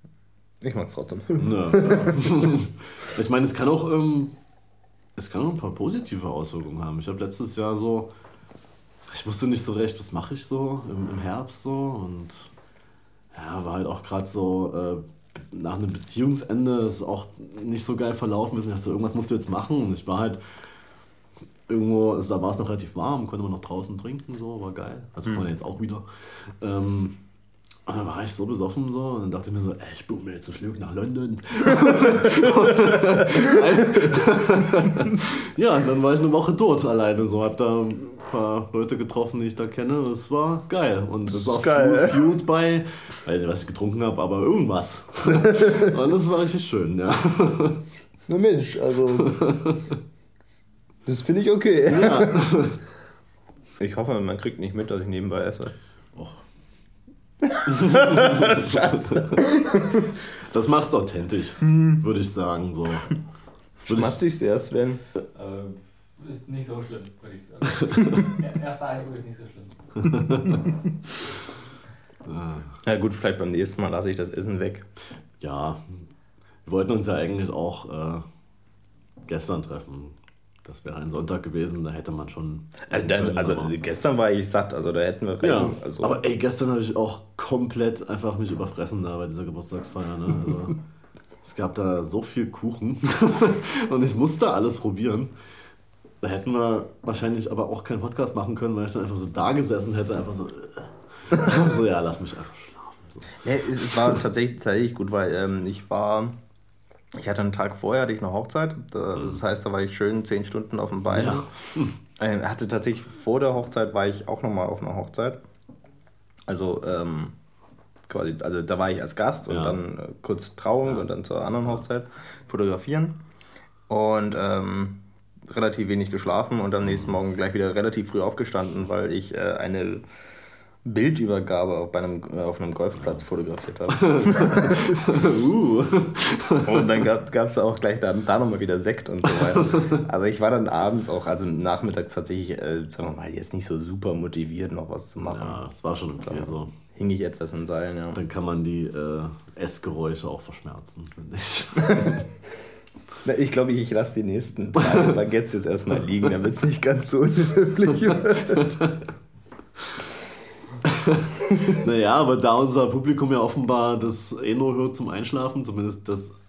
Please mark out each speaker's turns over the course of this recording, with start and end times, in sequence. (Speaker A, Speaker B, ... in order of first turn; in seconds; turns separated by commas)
Speaker A: 0.6-2.6, Speaker B: 1.4-4.4, Speaker B: 5.2-8.1, Speaker B: 9.1-12.5, Speaker B: 13.3-20.4, Speaker B: 21.7-27.2, Speaker B: 27.9-47.8, Speaker A: 31.9-34.1, Speaker A: 41.3-42.2, Speaker A: 45.3-45.9, Speaker A: 48.3-49.4, Speaker B: 49.2-50.0, Speaker A: 51.1-52.5, Speaker B: 51.9-52.8, Speaker A: 53.8-55.8, Speaker A: 57.4-60.1, Speaker B: 57.7-59.4, Speaker B: 60.0-63.2, Speaker B: 63.9-64.2, Speaker A: 63.9-65.0, Speaker C: 65.3-70.7, Speaker B: 67.9-68.2, Speaker B: 70.0-70.6, Speaker B: 72.2-72.8, Speaker A: 72.8-74.9, Speaker B: 75.4-76.1, Speaker B: 76.7-78.2, Speaker B: 79.3-83.8, Speaker A: 82.9-86.2, Speaker B: 85.4-90.8, Speaker B: 91.4-95.3, Speaker B: 96.2-104.2, Speaker A: 103.4-106.4, Speaker A: 107.1-111.5, Speaker B: 111.1-112.0, Speaker A: 112.2-115.4, Speaker A: 116.5-117.4, Speaker A: 118.1-123.2, Speaker B: 119.5-119.8, Speaker A: 123.9-130.1, Speaker B: 126.8-127.2, Speaker A: 130.8-135.0, Speaker B: 133.9-136.9, Speaker A: 136.7-145.6, Speaker B: 139.5-140.0, Speaker B: 145.2-146.7, Speaker A: 146.2-148.2, Speaker B: 148.1-152.3, Speaker A: 151.9-152.2, Speaker A: 153.2-158.8, Speaker B: 154.8-155.1, Speaker B: 158.5-159.0, Speaker B: 160.8-166.3, Speaker A: 161.5-161.8